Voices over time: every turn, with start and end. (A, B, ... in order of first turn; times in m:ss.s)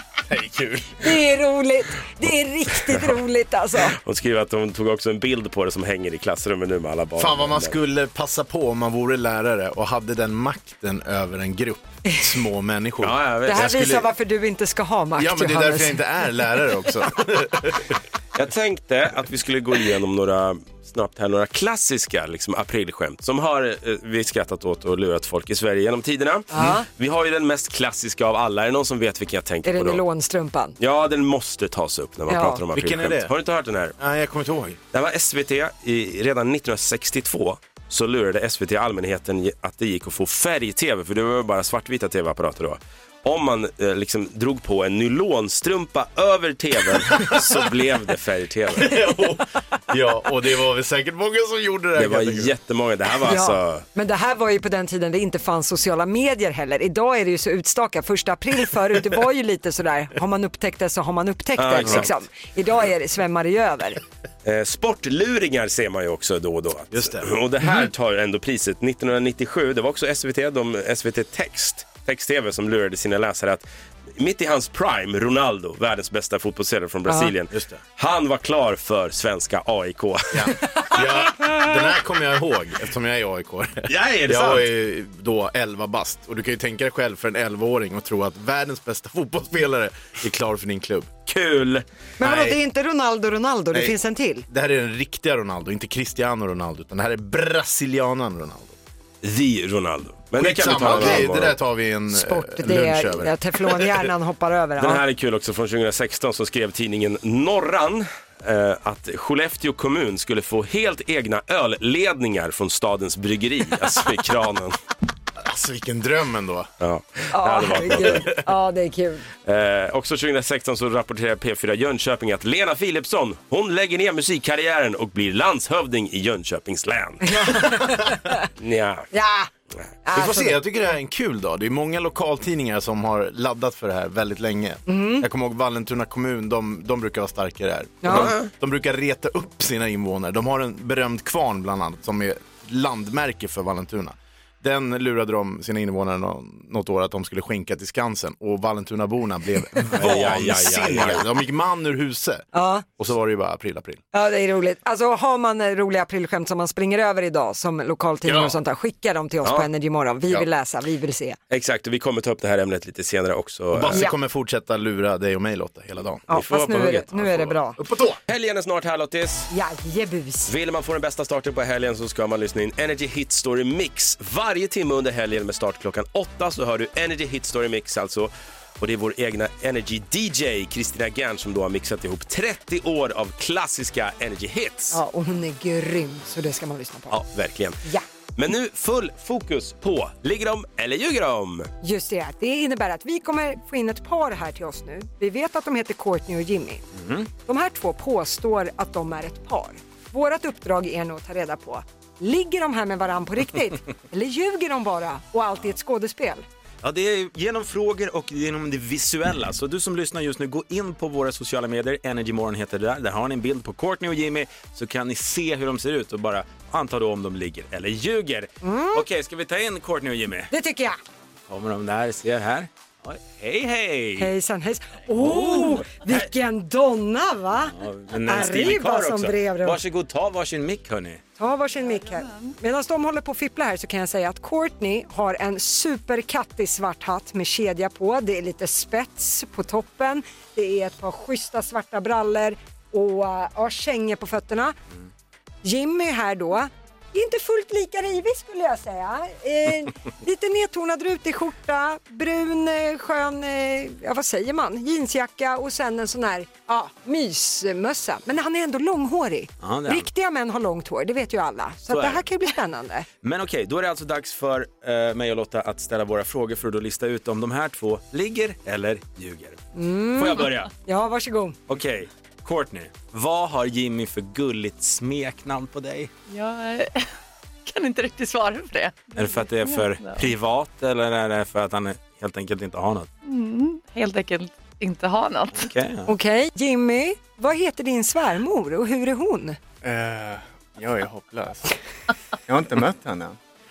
0:00.3-0:01.0 A
0:01.0-0:04.0 B
0:04.0-0:07.8 C
0:07.2-0:14.1 A
0:13.0-0:13.7 C
0:13.5-0:16.0 B
0:15.2-0:17.9 A
0:18.4-0:30.0 C
0:26.5-0:26.9 B
0:29.7-0:30.8 B
0:30.8-0:34.0 C
0:32.3-0:32.6 B
0:32.8-0:33.3 A
0:34.0-0:34.8 A
0:34.9-0:49.0 C
0:48.8-0:52.5 A
0:52.0-0:53.8 C
0:53.3-1:04.0 B
1:01.6-1:02.1 C
1:04.4-1:20.5 C
1:06.9-1:07.3 A
1:20.3-1:31.1 A
1:23.9-1:24.7 C
1:31.3-1:31.8 C
1:32.2-1:34.5 B
1:32.2-1:32.6 A
1:34.5-1:38.8 A
1:39.2-1:41.6 C
1:40.4-1:44.0 A
1:42.1-1:45.0 B
1:44.8-1:54.8 C
1:55.4-1:56.7 A
1:56.8-1:58.3 C
1:57.3-1:59.3 B
1:57.9-1:58.4 A
1:59.5-2:07.4 C
2:07.2-2:08.4 B
2:08.6-2:09.1 C
2:09.1-2:09.5 B
2:10.0-2:10.6 B
2:10.1-2:34.0 A
2:14.9-2:15.3 B
2:18.0-2:18.3 B
2:18.1-2:18.5 C
2:29.9-2:31.3 C
2:32.5-2:32.9 B
2:34.1-2:41.4 B
2:38.2-2:38.6 A
2:41.5-2:44.1 C
2:43.7-2:46.3 A
2:46.3-2:47.6 C
2:46.3-2:47.8 B
2:47.8-2:48.2 A
2:48.3-2:49.5 C
2:49.5-2:50.5 B
2:50.5-3:05.0 C
3:04.9-3:07.2 B
3:07.1-3:07.8 C
3:08.4-3:11.7 C
3:11.8-3:16.8 B
3:17.0-3:17.3 D
3:17.5-3:26.4 B
3:26.8-3:40.5 D
3:38.6-3:39.0 B
3:40.5-3:41.0 B
3:41.5-3:44.3 D
3:44.2-3:49.8 B
3:45.2-3:46.1 D
3:47.7-3:51.2 D
3:51.4-4:04.8 B
3:51.8-3:52.5 E
4:05.6-4:23.1 B
4:19.6-4:20.1 D
4:21.9-4:22.2 D
4:23.2-4:29.6 D
4:29.8-4:31.6 B
4:30.2-4:30.7 D
4:31.7-4:36.1 D
4:36.3-4:37.1 E
4:37.7-4:40.3 E
4:39.2-4:43.1 D
4:43.2-4:45.7 E
4:45.6-4:46.1 D
4:46.1-4:49.6 B
4:49.8-4:51.8 F
4:52.5-4:53.4 F